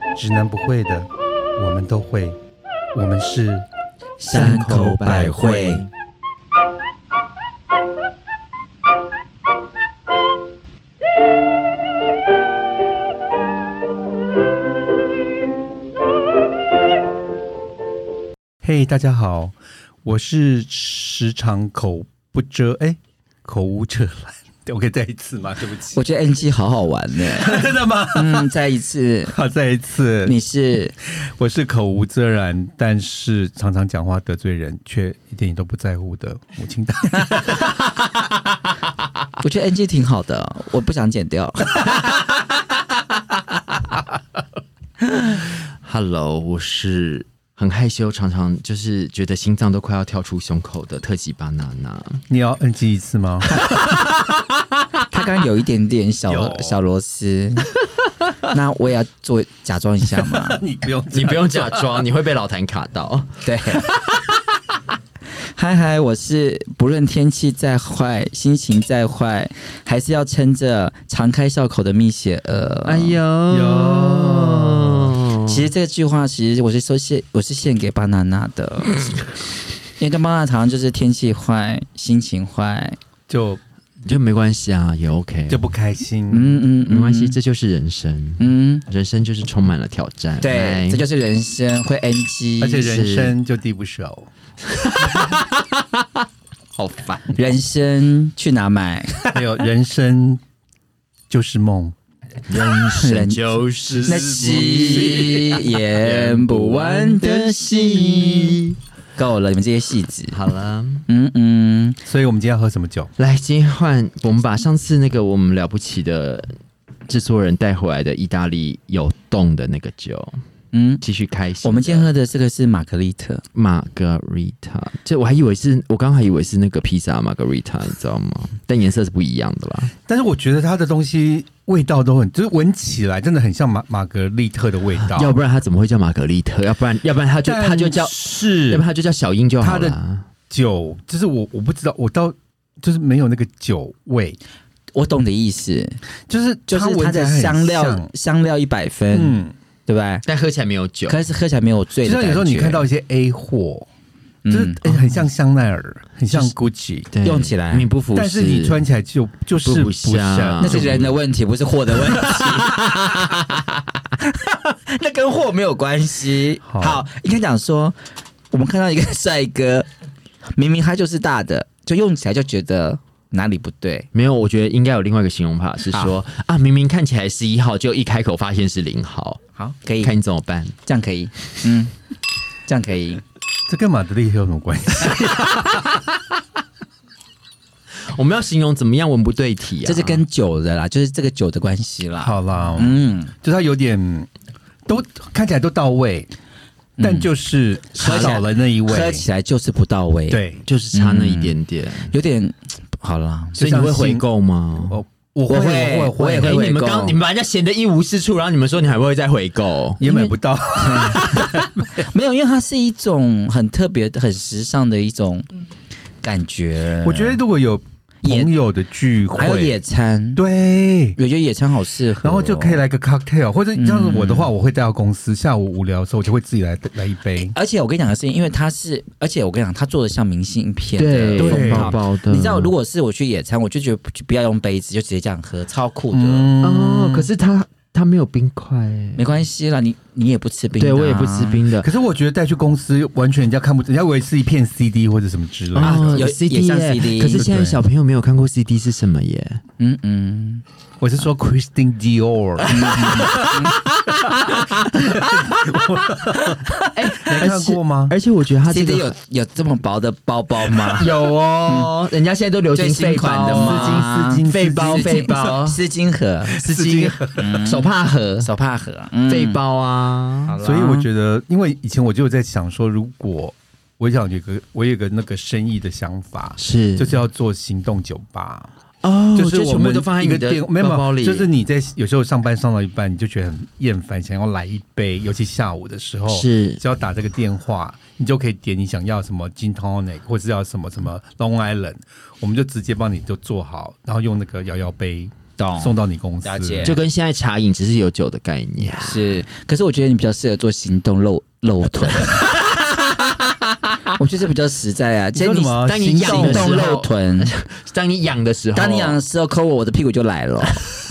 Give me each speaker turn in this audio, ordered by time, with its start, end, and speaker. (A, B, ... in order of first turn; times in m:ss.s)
0:00.2-0:02.4 A
0:02.9-0:03.6 A
0:04.2-0:05.8 B
0:04.3-0:05.9 C
0:18.6-0:19.5 A
0:20.0-0:26.0 A
0:25.9-0:29.3 B
0:27.3-0:28.5 A
0:29.3-0:30.3 A
0:30.2-0:30.9 B
0:31.2-0:37.8 A
0:39.4-0:41.9 B
0:45.3-0:52.2 C
0:52.3-0:53.7 A
0:53.7-0:54.8 C
0:55.1-0:57.7 B
0:56.3-0:56.8 A
0:58.4-1:00.6 B
1:00.2-1:02.0 A
1:01.1-1:04.4 C
1:03.4-1:03.8 B
1:05.6-1:13.2 B
1:12.8-1:15.7 C
1:13.5-1:15.2 A
1:15.4-1:19.0 B
1:20.0-1:23.0 B
1:23.3-1:23.6 A
1:24.0-1:25.6 C
1:25.5-1:26.6 A
1:26.3-1:27.4 B
1:26.9-1:31.0 C
1:28.4-1:28.8 B
1:30.4-1:32.9 B
1:32.6-1:34.3 A
1:32.8-1:33.3 C
1:34.6-1:37.4 C
1:37.3-1:39.2 B
1:39.3-1:40.4 A
1:41.3-1:41.9 A
1:42.5-1:48.8 C
1:42.9-1:43.5 B
1:43.8-1:45.5 A
1:44.0-1:48.6 B
1:49.2-1:50.4 B
1:50.3-1:51.0 C
1:51.1-1:52.0 B
1:52.0-1:53.1 A
1:53.2-1:56.5 C
1:57.1-2:00.4 C
2:00.7-2:01.0 B
2:01.0-2:02.1 C
2:01.6-2:03.4 B
2:03.5-2:09.9 C
2:10.1-2:15.3 A
2:15.0-2:20.2 C
2:17.4-2:18.8 A
2:19.6-2:20.0 A
2:20.5-2:24.4 A
2:24.9-2:26.0 B
2:26.3-2:28.1 A
2:26.7-2:30.2 B
2:29.1-2:29.5 A
2:30.2-2:31.2 C
2:31.1-2:32.8 B
2:32.0-2:33.9 A
2:34.4-2:35.2 B
2:34.5-2:37.1 A
2:37.1-2:38.8 C
2:37.2-2:37.8 B
2:38.1-2:40.9 A
2:39.6-2:41.2 C
2:40.6-2:43.4 B
2:42.0-2:43.7 C
2:44.2-2:48.0 B
2:46.6-2:47.0 A
2:48.5-2:49.9 B
2:50.5-2:54.1 B
2:54.1-2:59.4 C
2:59.6-3:00.1 B
3:00.0-3:00.8 C
3:00.8-3:01.9 B
3:02.7-3:03.2 B
3:03.7-3:05.8 A
3:05.2-3:06.2 C
3:08.0-3:10.2 C
3:09.8-3:13.3 B
3:12.2-3:14.3 A
3:14.8-3:16.3 A
3:17.0-3:17.3 B
3:17.0-3:19.2 A
3:17.9-3:20.4 B
3:18.0-3:18.4 C
3:20.3-3:20.6 A
3:20.6-3:22.1 C
3:20.9-3:21.6 B
3:22.1-3:23.6 B
3:23.6-3:24.2 A
3:23.6-3:25.0 C
3:24.9-3:26.6 A
3:25.5-3:27.2 B
3:26.3-3:30.0 C
3:30.0-3:31.7 A
3:30.0-3:35.4 B
3:36.2-3:37.4 B
3:37.0-3:39.8 A
3:38.2-3:38.5 B
3:39.3-3:40.4 B
3:40.4-3:41.2 A
3:41.2-3:42.8 B
3:42.2-3:47.5 A
3:43.8-3:44.5 B
3:47.4-3:56.5 B
3:51.0-3:52.7 C
3:51.4-3:52.0 A
3:56.1-3:57.3 A
3:56.6-3:59.2 C
3:59.1-4:01.6 B
4:00.8-4:01.9 C
4:01.8-4:06.3 A
4:05.7-4:09.6 C
4:05.8-4:07.5 B
4:07.3-4:07.8 A
4:09.8-4:10.6 B
4:11.0-4:13.6 A
4:12.7-4:13.8 B
4:13.0-4:14.9 C
4:14.2-4:18.1 A
4:16.8-4:19.1 C
4:18.6-4:21.1 B
4:20.7-4:25.8 C
4:21.7-4:21.9 B
4:22.7-4:26.6 B
4:23.4-4:25.5 A
4:26.5-4:28.5 C
4:26.5-4:27.5 A
4:27.3-4:29.6 B
4:29.3-4:30.6 C
4:30.4-4:31.1 B
4:30.6-4:38.7 A
4:36.6-4:37.2 C
4:39.0-4:41.5 C
4:39.3-4:57.0 A
4:46.3-4:46.8 C
4:55.6-4:57.0 B
4:56.8-4:59.2 C
4:58.9-5:02.5 B
5:02.2-5:04.0 C
5:04.1-5:07.5 B
5:05.3-5:06.8 A
5:05.8-5:09.2 C
5:08.7-5:10.9 B